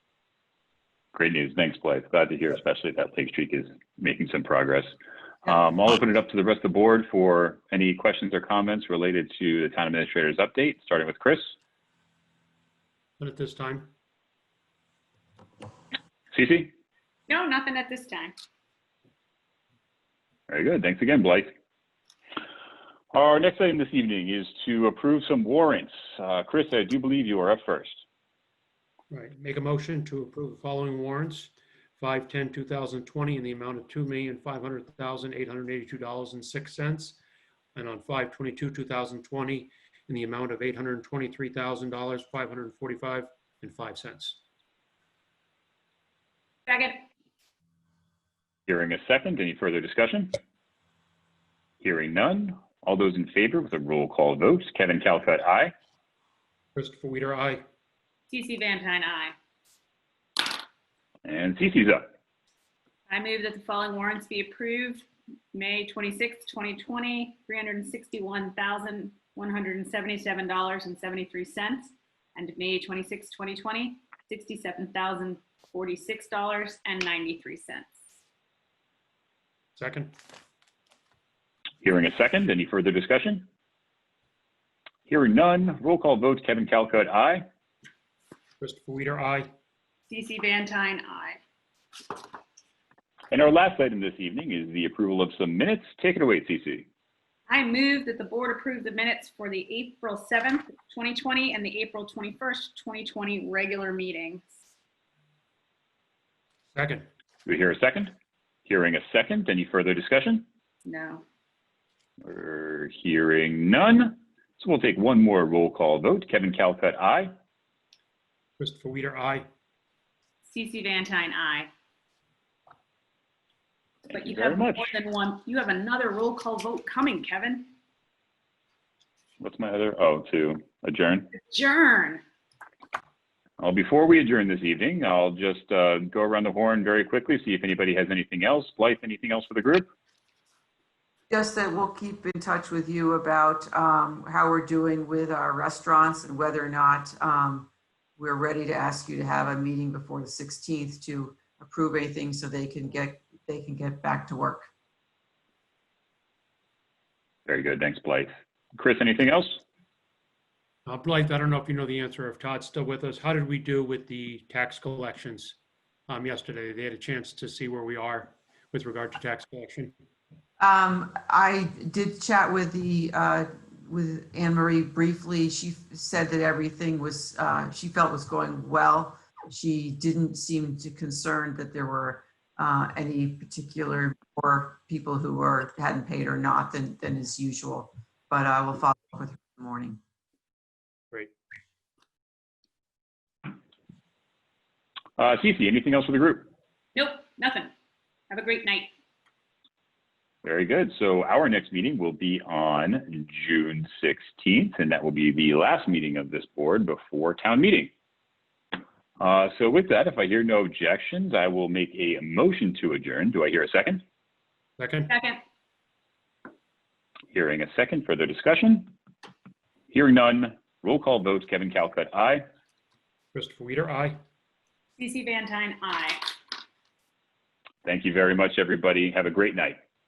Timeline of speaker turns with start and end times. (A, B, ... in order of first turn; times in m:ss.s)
0:01.1-0:11.5 A
0:13.2-0:13.9 B
0:16.3-0:16.7 A
0:17.3-0:18.3 C
0:20.5-0:21.5 A
0:23.1-0:28.0 A
0:29.1-0:37.2 B
0:37.7-0:44.4 B
0:46.7-0:47.0 C
0:48.7-0:50.4 A
0:51.8-0:55.7 A
0:56.7-0:57.6 B
0:58.3-0:59.3 C
1:01.2-1:02.1 A
1:03.1-1:17.9 C
1:19.8-1:20.1 B
1:21.8-1:23.4 A
1:25.1-1:27.4 A
1:28.6-1:29.5 B
1:30.1-1:31.4 C
1:33.3-1:36.8 A
1:37.5-1:44.5 C
1:46.7-1:47.0 B
1:47.4-1:48.1 A
1:48.6-1:50.4 A
1:50.8-1:51.2 C
1:52.2-1:57.3 A
1:58.6-1:59.5 B
2:00.5-2:01.7 C
2:04.1-2:04.9 A
2:04.1-2:07.7 C
2:09.4-2:11.3 A
2:11.3-2:12.2 C
2:13.6-2:19.9 A
2:21.3-2:34.7 D
2:37.5-2:39.6 A
2:40.9-2:45.6 B
2:46.1-2:49.9 B
2:50.6-3:10.0 D
3:15.2-3:16.5 A
3:16.9-3:17.7 C
3:18.3-3:18.9 C
3:20.4-3:27.9 A
3:29.2-3:34.0 A
3:34.8-3:35.1 B
3:35.1-3:35.4 C
3:37.3-3:38.9 A
3:39.9-3:42.4 A
3:43.3-3:44.2 B
3:45.0-3:46.3 C
3:47.8-3:49.8 A